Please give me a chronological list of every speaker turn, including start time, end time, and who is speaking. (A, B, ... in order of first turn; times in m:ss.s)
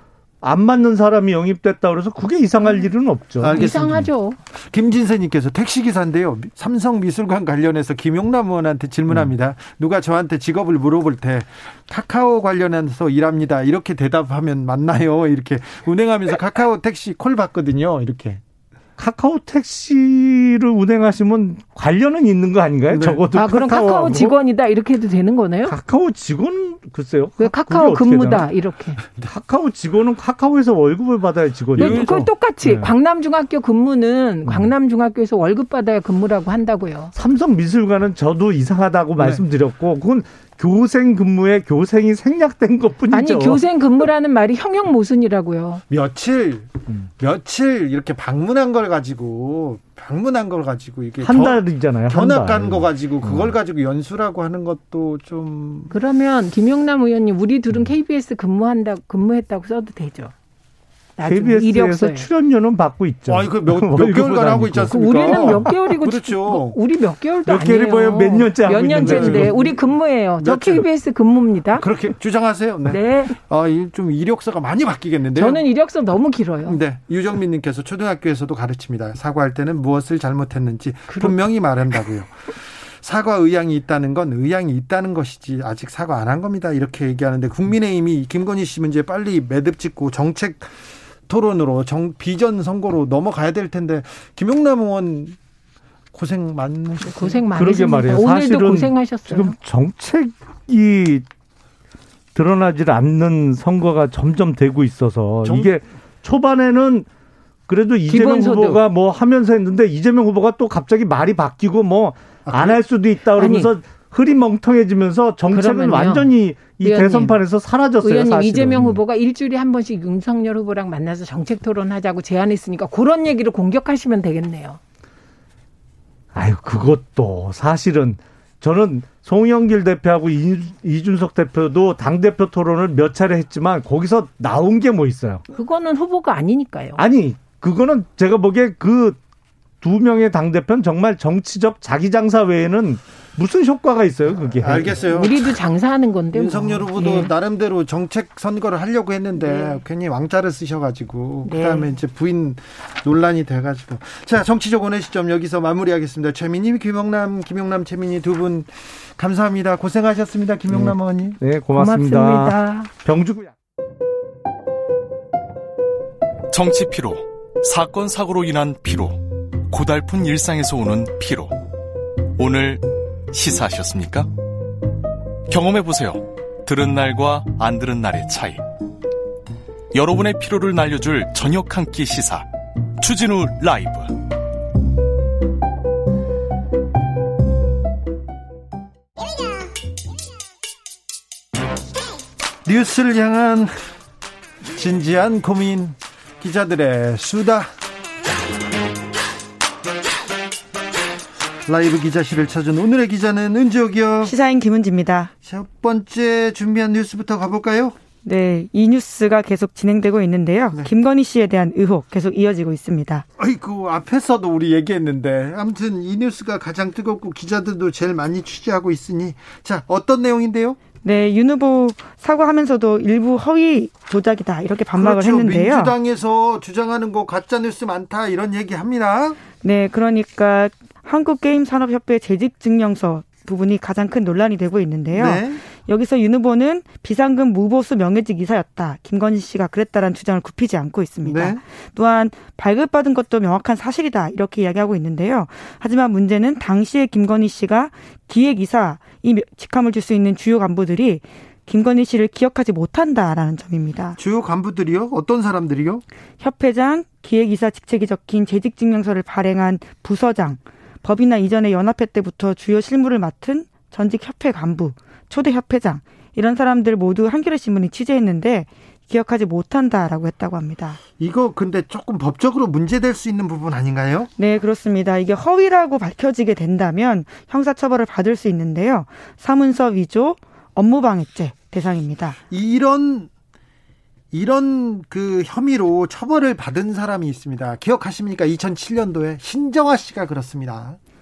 0:00.4-0:03.6 A
0:02.6-0:02.9 B
0:03.4-0:04.1 C
0:03.5-0:04.4 B
0:04.7-0:18.4 C
0:19.0-0:24.4 A
0:22.9-0:23.2 C
0:23.3-0:25.8 B
0:25.7-0:28.5 A
0:27.4-0:29.0 B
0:29.3-0:32.9 A
0:31.8-0:37.1 B
0:31.8-0:32.3 C
0:34.4-0:34.7 A
0:37.2-0:43.6 A
0:39.2-0:39.4 C
0:43.1-0:45.8 B
0:45.9-0:55.9 C
0:51.2-0:53.5 A
0:55.9-1:00.3 B
1:01.2-1:02.3 B
1:01.2-1:05.8 A
1:03.3-1:06.8 C
1:04.9-1:11.9 B
1:07.5-1:09.6 A
1:08.9-1:09.8 C
1:10.4-1:10.9 C
1:11.8-1:15.7 C
1:12.9-1:13.4 B
1:15.3-1:16.8 B
1:16.7-1:30.7 C
1:21.1-1:21.4 B
1:31.3-1:35.4 C
1:36.1-1:37.4 C
1:37.0-1:39.6 B
1:37.6-1:41.2 A
1:42.4-1:47.1 A
1:45.4-1:45.7 C
1:47.7-1:59.0 A
1:48.1-1:48.8 B
1:52.5-1:52.8 C
1:53.4-1:53.7 B
1:55.5-1:57.4 B
1:58.0-2:04.8 B
2:06.3-2:15.4 A
2:15.5-2:17.0 B
2:17.0-2:19.2 A
2:19.8-2:25.0 A
2:24.6-2:25.5 C
2:25.0-2:27.3 B
2:26.3-2:41.4 C
2:31.5-2:31.9 D
2:40.7-2:43.5 A
2:41.7-2:42.9 B
2:46.5-2:51.6 E
2:52.4-2:54.3 E
2:55.5-2:58.6 E
2:59.9-3:02.5 E
3:03.0-3:04.2 E
3:12.6-3:13.8 C
3:14.7-3:17.7 C
3:21.7-3:24.4 C
3:24.2-3:25.3 D
3:25.4-3:28.0 C
3:28.2-3:33.2 D
3:33.4-3:40.8 C
3:41.0-3:45.9 D
3:44.9-3:49.4 C
3:49.6-4:14.2 D
3:55.1-3:55.6 C
4:01.2-4:01.6 C
4:14.2-4:16.0 C
4:16.4-4:31.0 D
4:31.2-4:34.3 C
4:34.4-4:42.4 D
4:42.5-4:43.3 C
4:44.3-4:51.0 C